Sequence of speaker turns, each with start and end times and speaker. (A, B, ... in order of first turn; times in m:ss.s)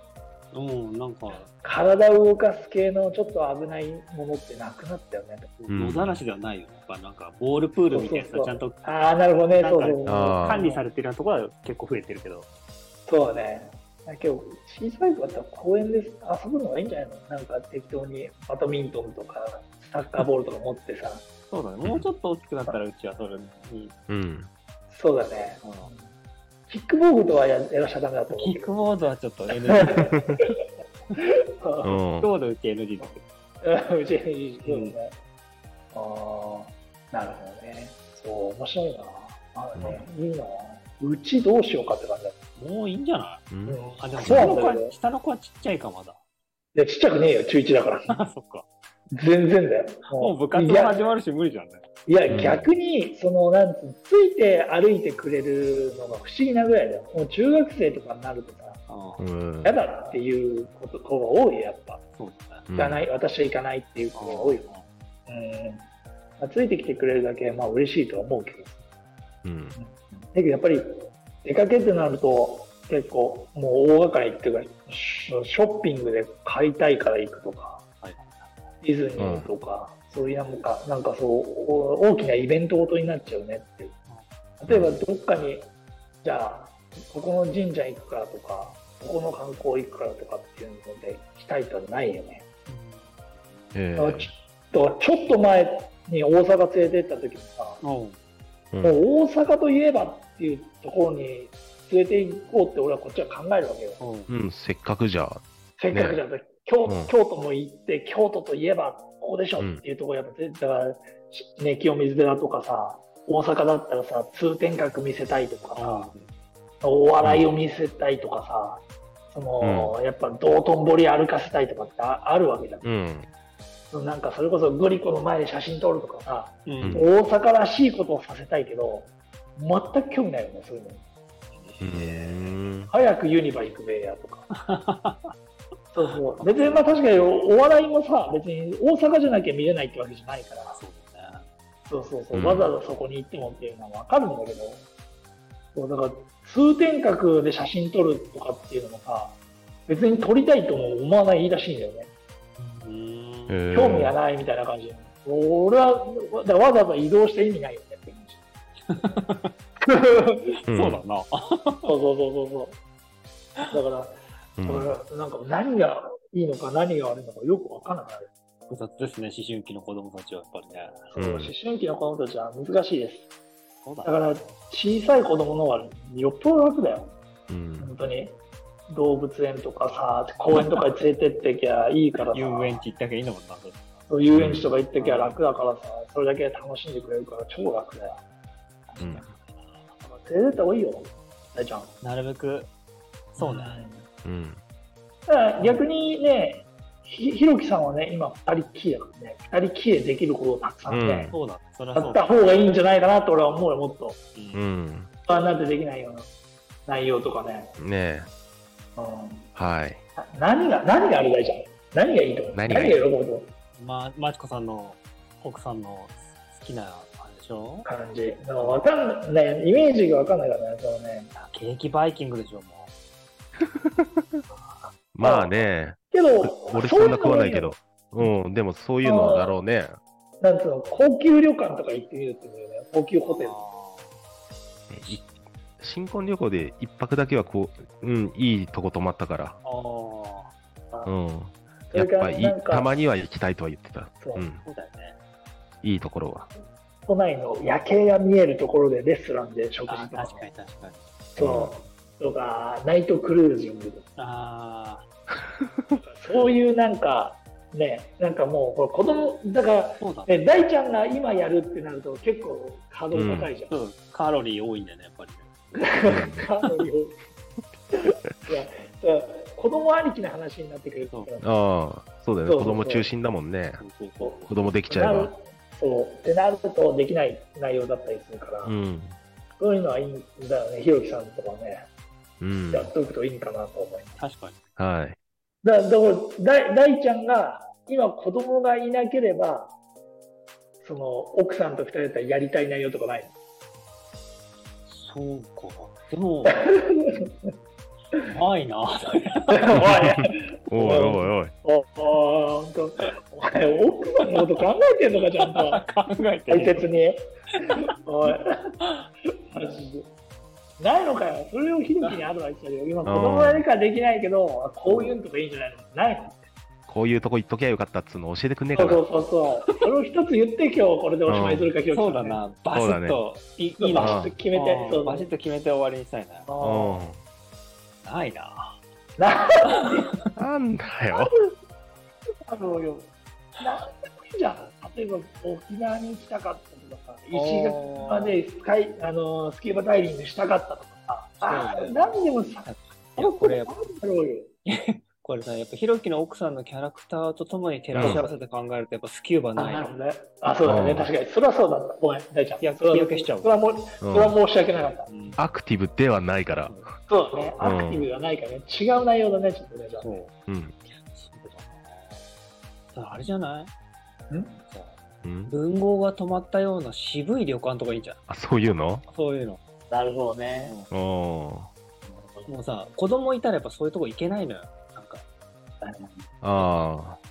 0:00.5-0:01.6 A
0:01.5-0:05.5 B
0:05.6-0:08.8 A
0:05.7-0:06.2 C
0:07.9-0:10.8 B
0:09.5-0:12.5 A
0:10.0-0:10.6 C
0:13.1-0:21.2 B
0:21.5-0:24.0 A
0:24.1-0:24.5 C
0:24.9-0:26.1 B
0:25.6-0:25.9 A
0:26.7-0:28.8 B
0:28.3-0:30.2 A
0:29.7-0:30.3 B
0:31.2-0:32.0 B
0:31.8-0:32.3 C
0:32.2-0:33.2 A
0:33.0-0:35.2 B
0:34.6-0:35.0 A
0:35.9-0:42.4 B
0:39.8-0:40.0 C
0:42.6-0:43.4 A
0:43.5-0:44.5 C
0:43.6-0:44.9 B
0:44.0-0:46.2 A
0:46.7-0:48.2 B
0:48.1-0:48.7 A
0:49.2-0:51.2 B
0:50.1-0:51.8 A
0:52.1-0:58.8 B
0:52.3-0:52.7 C
0:58.9-0:59.2 A
0:59.2-0:59.8 C
0:59.6-1:02.0 B
1:02.2-1:02.7 A
1:02.7-1:03.0 C
1:02.8-1:04.7 B
1:04.2-1:04.8 A
1:05.3-1:05.8 B
1:06.4-1:08.8 B
1:09.4-1:09.8 C
1:09.7-1:17.8 B
1:18.0-1:18.6 A
1:18.8-1:23.9 B
1:19.2-1:19.5 C
1:24.6-1:25.7 B
1:24.7-1:24.9 C
1:26.2-1:32.4 B
1:32.7-1:33.8 A
1:33.7-1:34.3 C
1:34.0-1:37.8 B
1:37.8-1:38.2 A
1:38.7-1:39.0 C
1:38.8-1:44.0 B
1:44.0-1:44.3 A
1:44.3-1:46.2 C
1:45.8-1:56.1 B
1:46.8-1:47.1 C
1:55.7-1:56.3 A
1:56.8-2:02.9 B
1:57.2-1:57.5 C
1:59.6-1:59.9 C
2:02.8-2:03.3 C
2:03.9-2:11.0 B
2:06.6-2:07.1 A
2:06.8-2:07.0 C
2:11.5-2:12.7 A
2:11.8-2:12.9 C
2:12.9-2:14.5 B
2:14.6-2:15.3 A
2:15.9-2:20.8 B
2:16.4-2:17.3 A
2:20.7-2:21.4 A
2:21.9-2:24.8 B
2:22.3-2:22.7 C
2:25.7-2:32.1 B
2:32.6-2:33.6 A
2:33.5-2:34.2 C
2:33.7-2:38.4 B
2:38.9-2:39.5 A
2:39.8-2:40.5 B
2:40.7-2:41.9 A
2:40.7-2:41.0 C
2:41.8-2:42.8 B
2:43.7-2:48.3 B
2:44.6-2:44.9 C
2:48.7-2:51.0 A
2:51.1-2:53.3 B
2:51.2-2:51.5 C
2:53.8-2:54.5 A
2:54.0-2:57.1 B
2:57.5-2:57.9 C
2:57.8-3:02.8 B
3:00.5-3:00.8 A
3:02.3-3:03.9 A
3:04.1-3:08.2 B
3:04.3-3:04.7 C
3:04.9-3:05.4 A
3:08.9-3:09.2 B
3:09.0-3:09.3 C
3:10.0-3:11.9 B
3:12.0-3:12.7 A
3:13.3-3:13.8 A
3:13.4-3:14.0 B
3:14.2-3:14.6 C
3:15.3-3:21.3 B
3:20.9-3:21.4 C
3:21.3-3:22.3 A
3:21.9-3:24.2 B
3:24.3-3:24.6 A
3:24.5-3:25.1 C
3:25.2-3:26.3 B
3:26.8-3:27.7 B
3:27.8-3:28.3 C
3:29.0-3:29.5 B
3:29.5-3:30.0 C
3:30.2-3:33.5 B
3:32.5-3:33.0 C
3:33.8-3:37.9 A
3:37.8-3:41.3 B
3:38.6-3:38.9 A
3:41.3-3:42.9 A
3:43.6-3:44.4 C
3:45.1-3:50.0 C
3:45.2-3:45.6 B
3:46.1-3:47.7 B
3:49.0-3:49.6 B
3:50.4-3:53.6 B
3:53.3-3:54.1 A
3:54.9-3:55.3 C
3:55.8-3:59.6 C
3:59.6-4:00.5 A
4:01.0-4:04.6 C
4:01.9-4:02.9 B
4:04.2-4:04.5 B
4:04.6-4:05.2 A
4:05.8-4:06.5 C
4:07.0-4:10.5 B
4:09.9-4:11.0 A
4:11.3-4:14.1 B
4:11.4-4:11.8 C
4:14.2-4:15.0 A
4:16.0-4:23.7 B
4:20.0-4:20.5 A
4:23.1-4:23.5 C
4:23.7-4:25.8 A
4:25.8-4:27.2 B
4:26.0-4:26.5 C
4:27.9-4:31.5 B
4:31.4-4:33.8 C
4:32.4-4:33.1 B
4:33.8-4:34.7 A
4:34.2-4:38.8 B
4:34.5-4:35.3 C
4:38.6-4:39.2 C
4:39.6-4:41.9 B
4:42.4-4:42.9 C
4:42.7-4:44.2 B
4:44.2-4:44.6 A
4:44.8-4:45.2 C
4:45.6-4:49.7 B
4:50.8-4:53.3 B
4:54.8-4:56.6 A
4:56.6-4:57.5 B
4:58.3-5:00.0 A
4:59.6-5:05.8 B
5:00.7-5:01.5 C
5:05.5-5:06.8 A
5:06.5-5:08.5 B
5:09.5-5:10.1 B
5:10.8-5:16.5 B
5:13.0-5:13.6 C
5:14.8-5:15.1 A
5:16.9-5:19.0 C
5:18.7-5:22.4 B
5:21.2-5:21.7 C
5:21.9-5:26.5 A
5:22.7-5:23.2 C
5:23.8-5:25.3 B
5:24.0-5:24.3 C
5:26.5-5:27.0 B
5:26.6-5:27.2 C
5:28.0-5:28.8 A
5:29.2-5:30.1 B
5:29.8-5:30.1 A
5:30.4-5:31.3 C
5:31.1-5:31.4 B
5:32.5-5:44.5 B
5:37.3-5:38.4 A
5:41.4-5:43.8 A
5:44.7-5:49.9 A
5:47.9-5:48.2 C
5:47.9-5:48.3 B
5:49.6-5:55.1 B
5:50.6-5:51.1 C
5:52.6-5:53.5 A
5:54.0-5:54.4 C
5:55.1-5:55.4 A
5:55.4-5:56.7 C
5:57.0-6:00.2 B
5:57.6-5:58.0 C
6:00.0-6:00.3 A
6:00.5-6:00.7 C
6:01.0-6:02.2 A
6:02.9-6:03.7 A
6:04.3-6:04.6 B
6:04.7-6:08.2 A
6:05.2-6:05.5 C
6:08.3-6:09.0 C
6:09.0-6:09.6 A
6:09.9-6:10.8 B
6:10.9-6:11.7 C
6:12.2-6:12.5 B
6:12.4-6:15.2 A
6:15.8-6:16.2 B
6:16.4-6:17.2 C